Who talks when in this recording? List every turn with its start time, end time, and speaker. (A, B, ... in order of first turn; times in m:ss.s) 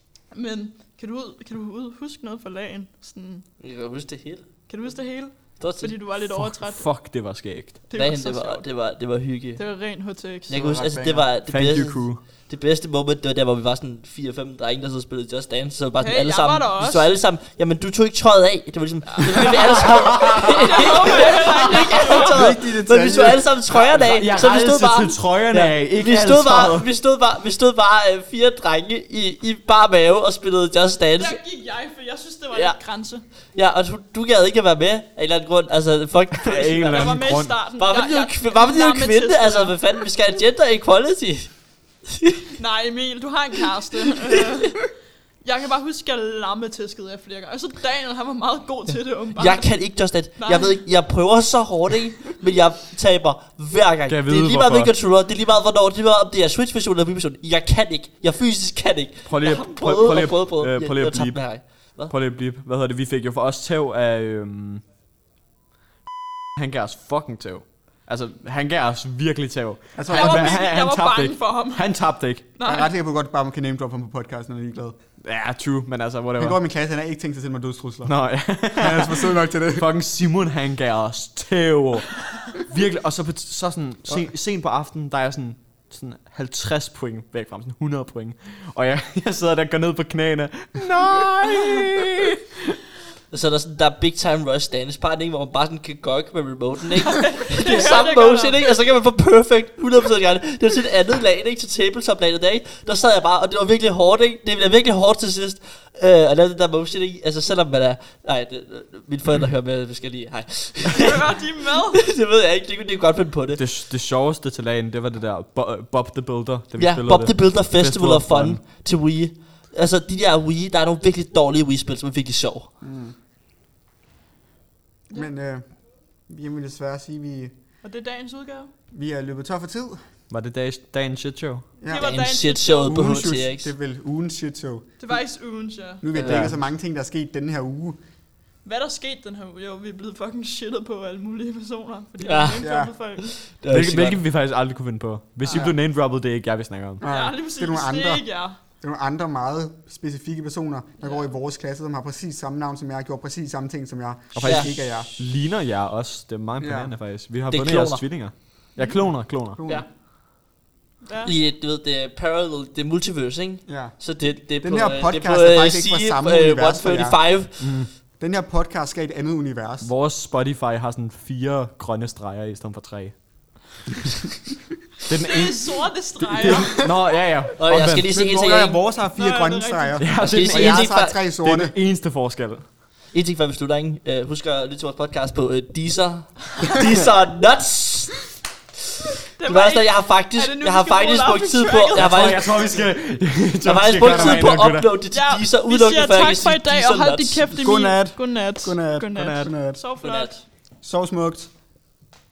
0:00.3-0:03.4 A
0:03.6-0:04.5 B
0:04.7-0:06.8 A
0:05.6-0:06.0 B
0:06.2-0:07.9 C
0:07.9-0:08.6 A
0:07.9-0:09.6 B
0:09.6-0:10.6 A
0:10.5-0:31.4 B
0:10.5-0:11.3 D
0:11.5-0:12.2 C
0:16.0-0:17.1 A
0:19.1-0:19.7 A
0:19.5-0:21.3 C
0:20.6-0:22.4 A
0:22.1-0:23.5 D
0:23.7-0:26.9 C
0:31.2-0:33.2 A
0:32.5-0:32.8 B
0:33.5-0:37.2 B
0:36.4-0:37.6 C
0:36.9-0:39.8 A
0:37.8-0:41.5 B
0:42.1-0:42.5 B
0:42.6-0:44.9 A
0:45.4-0:49.9 A
0:49.4-1:02.1 B
0:50.4-0:50.8 A
0:54.1-0:54.9 C
0:59.3-1:01.5 C
1:02.1-1:04.8 C
1:06.6-1:12.5 C
1:10.0-1:10.7 D
1:10.1-1:12.0 A
1:12.6-1:12.9 A
1:12.6-1:15.0 D
1:15.2-1:16.6 C
1:16.4-1:18.2 D
1:18.0-1:32.7 C
1:18.7-1:19.9 D
1:33.3-1:53.6 B
1:37.1-1:38.6 A
1:50.9-1:52.0 A
1:53.6-1:58.6 C
1:56.8-2:02.7 B
2:02.8-2:03.2 D
2:05.1-2:05.7 D
2:06.3-2:07.5 D
2:07.8-2:08.7 A
2:08.9-2:10.0 D
2:10.3-2:11.7 C
2:11.8-2:12.2 D
2:11.9-2:13.3 A
2:11.9-2:13.7 B
2:12.9-2:14.9 D
2:15.0-2:16.0 A
2:16.0-2:18.0 D
2:16.1-2:16.6 B
2:16.2-2:16.6 C
2:18.6-2:23.3 A
2:22.2-2:24.2 B
2:22.6-2:22.9 D
2:23.7-2:27.0 C
2:25.4-2:25.7 A
2:25.5-2:25.8 D
2:27.0-2:35.1 D
2:27.1-2:28.6 A
2:34.3-2:39.6 C
2:34.4-2:34.7 B
2:36.6-2:36.9 D
2:37.5-2:38.0 B
2:39.4-2:39.9 D
2:41.0-2:41.3 A
2:41.2-2:47.6 B
2:43.7-2:44.0 D
2:44.6-2:47.5 D
2:47.6-2:47.9 C
2:48.2-2:49.9 D
2:49.8-2:53.2 C
2:55.1-2:58.1 C
2:55.1-2:56.9 A
2:56.4-2:56.9 D
2:57.6-2:58.8 B
2:58.0-3:01.7 D
2:59.2-3:00.1 A
3:00.0-3:02.6 C
3:00.2-3:01.2 B
3:03.1-3:08.2 B
3:09.4-3:12.5 A
3:09.4-3:12.5 B
3:12.0-3:14.9 C
3:13.6-3:17.6 B
3:14.1-3:14.5 A
3:15.1-3:20.4 A
3:17.6-3:19.8 D
3:20.0-3:20.3 B
3:20.8-3:21.5 D